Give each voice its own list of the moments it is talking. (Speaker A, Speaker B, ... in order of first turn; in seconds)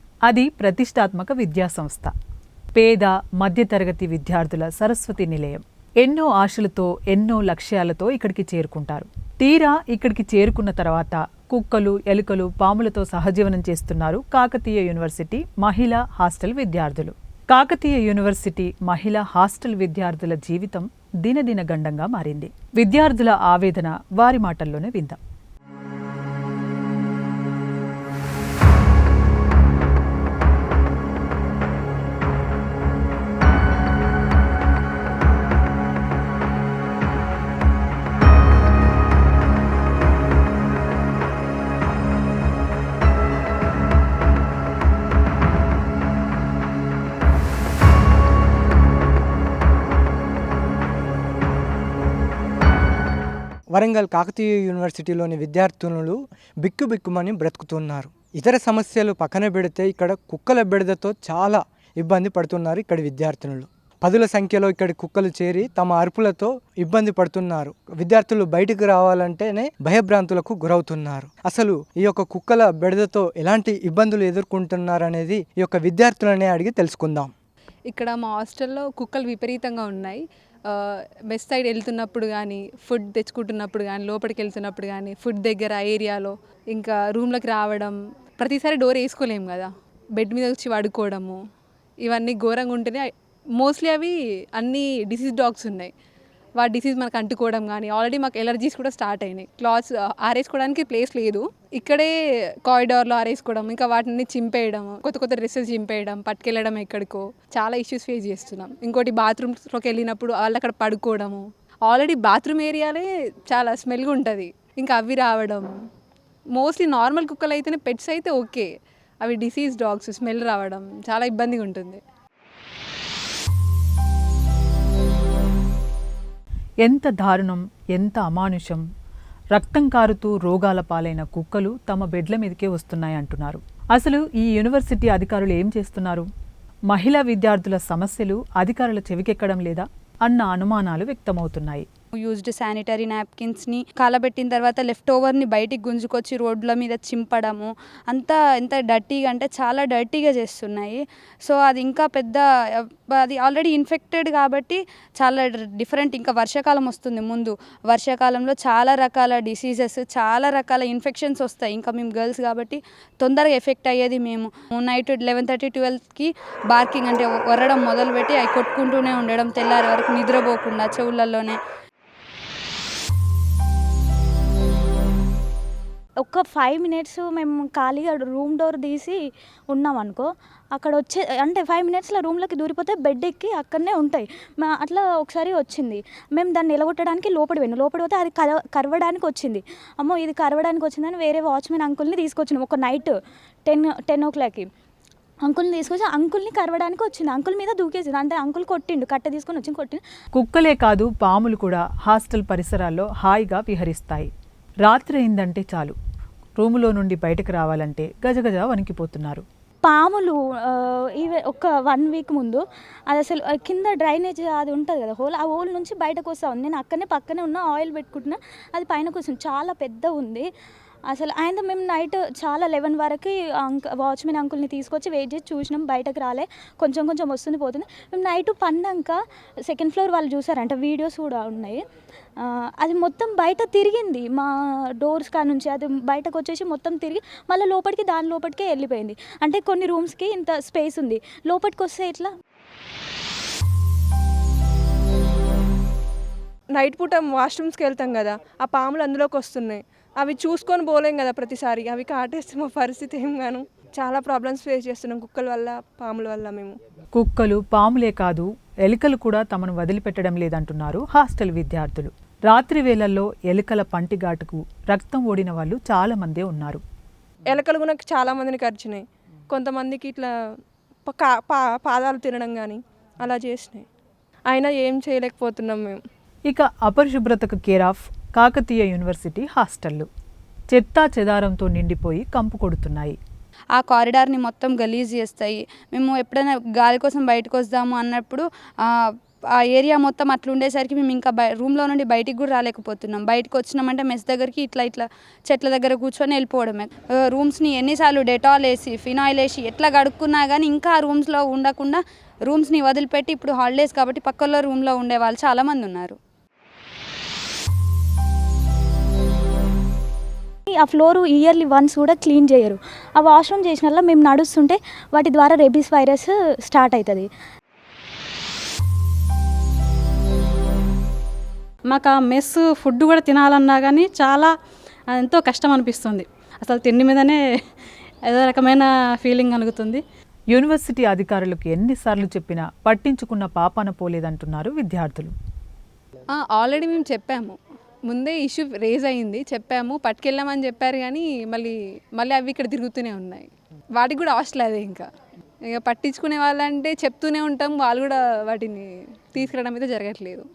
Speaker A: 0.3-2.1, 2.8-25.2, 126.8-128.8, 129.5-136.3, 136.9-141.9, 200.3-204.3, 204.8-206.0, 206.6-209.4, 257.1-266.8, 276.5-280.1, 280.7-283.2, 330.5-335.3
Speaker B: 53.7-77.3
Speaker C: 77.9-91.4, 92.0-95.9, 96.6-102.1, 102.7-115.7, 116.5-118.7, 119.2-122.0, 336.3-345.1, 345.7-350.4
Speaker D: 142.2-171.6, 283.8-288.5, 289.7-306.2
Speaker E: 176.2-193.2, 193.7-194.7, 195.4-200.0, 209.8-220.5, 221.1-231.8, 232.4-242.3, 310.7-317.3
Speaker F: 246.7-256.7, 267.5-270.3, 271.1-273.9, 274.5-276.0
Speaker G: 321.9-324.5, 325.1-327.4, 328.2-330.0